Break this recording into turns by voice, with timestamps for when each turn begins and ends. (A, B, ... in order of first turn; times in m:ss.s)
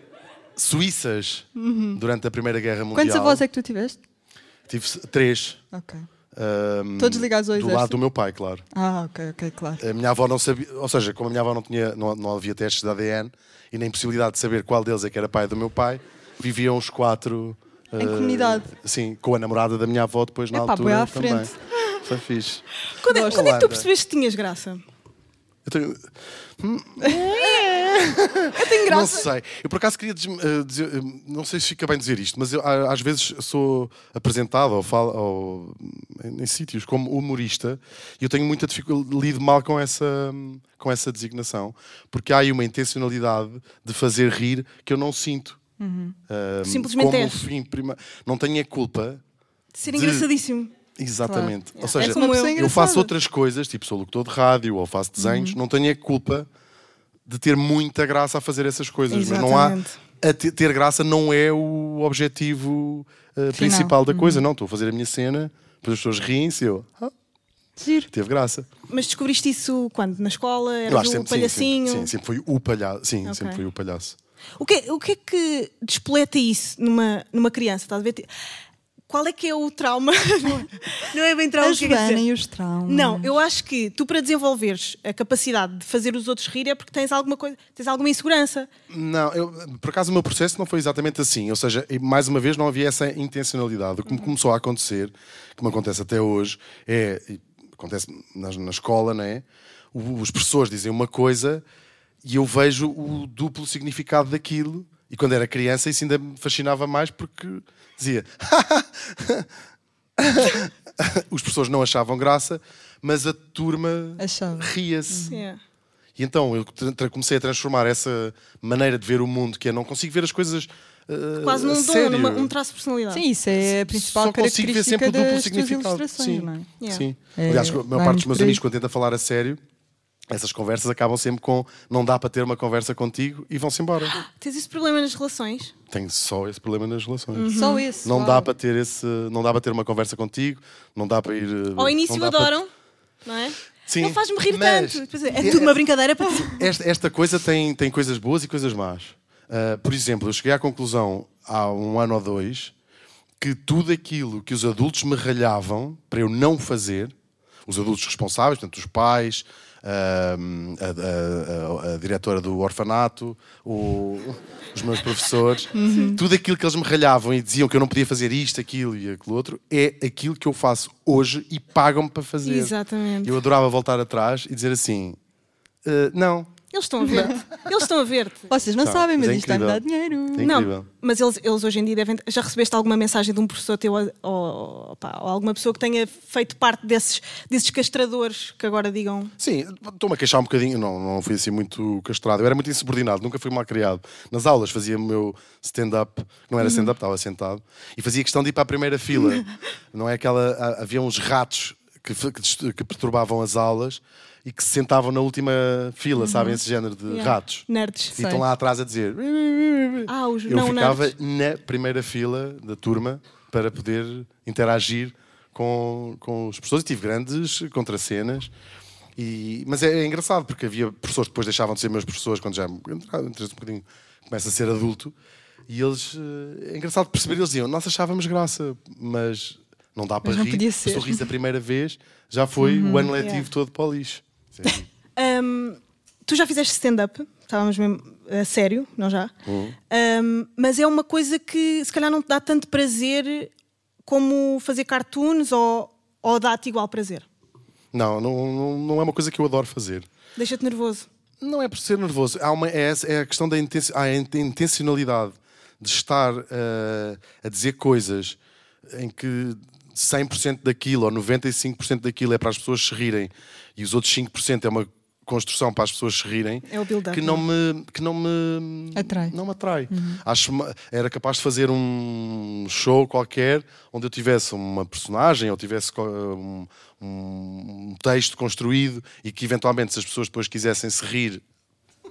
0:00.6-0:03.4 A
0:01.6-0:02.0 B
0:02.9-0:04.0 B
0:04.7-0:05.6 A
0:05.7-0:06.0 B
0:06.3-0:08.6 A
0:07.0-0:08.0 B
0:08.7-0:09.8 B
0:09.8-0:23.9 A
0:18.0-0:18.7 B
0:20.5-0:21.5 B
0:23.0-0:24.8 C
0:25.6-0:45.6 A
0:27.1-0:28.0 C
0:28.5-0:29.3 C
0:45.8-0:46.2 B
0:46.3-0:49.2 A
0:46.6-0:47.4 C
0:49.7-0:50.7 C
0:49.9-0:50.3 A
0:51.0-0:56.5 A
0:51.2-0:53.1 B
0:51.8-0:53.0 C
0:55.2-0:55.6 B
0:57.2-1:07.1 A
0:59.1-0:59.9 C
1:03.5-1:04.4 B
1:07.8-1:08.1 B
1:08.1-1:08.7 A
1:08.9-1:12.1 C
1:10.9-1:14.2 A
1:13.2-1:13.6 C
1:14.6-1:18.3 C
1:19.1-1:22.2 C
1:21.6-1:23.3 B
1:22.8-1:28.7 C
1:28.9-1:41.6 A
1:42.2-1:49.5 A
1:50.2-1:55.4 A
1:54.2-1:55.4 B
1:55.3-1:55.6 C
1:56.2-2:02.5 A
2:01.4-2:03.2 C
2:03.1-2:06.7 B
2:03.6-2:09.6 A
2:07.3-2:08.6 B
2:10.3-2:14.2 A
2:14.1-2:15.7 C
2:15.9-2:22.6 A
2:17.3-2:17.9 C
2:17.5-2:18.5 B
2:21.8-2:22.7 C
2:23.2-2:26.6 C
2:23.9-2:25.8 A
2:26.3-2:32.7 A
2:33.4-2:37.1 A
2:37.6-2:55.2 A
2:45.7-2:46.2 B
2:52.4-2:53.4 C
2:55.8-2:56.5 A
2:56.7-2:58.5 C
2:57.0-2:57.4 A
2:58.5-3:00.6 B
2:58.8-3:00.9 A
3:00.4-3:09.3 C
3:09.4-3:38.5 A
3:16.6-3:16.9 C
3:26.2-3:26.6 B
3:27.1-3:28.1 C
3:28.1-3:28.4 B
3:30.1-3:31.1 C
3:39.2-3:45.1 A
3:45.7-3:54.8 A
3:50.2-3:51.2 B
3:52.6-3:53.1 B
3:53.2-3:53.4 C
3:55.2-3:59.3 C
3:59.4-3:59.8 A
3:59.9-4:03.5 C
4:04.0-4:07.2 C
4:07.9-4:10.1 A
4:10.4-4:11.1 C
4:11.4-4:41.4 A
4:26.7-4:27.4 C
4:28.9-4:29.3 B
4:29.9-4:30.2 B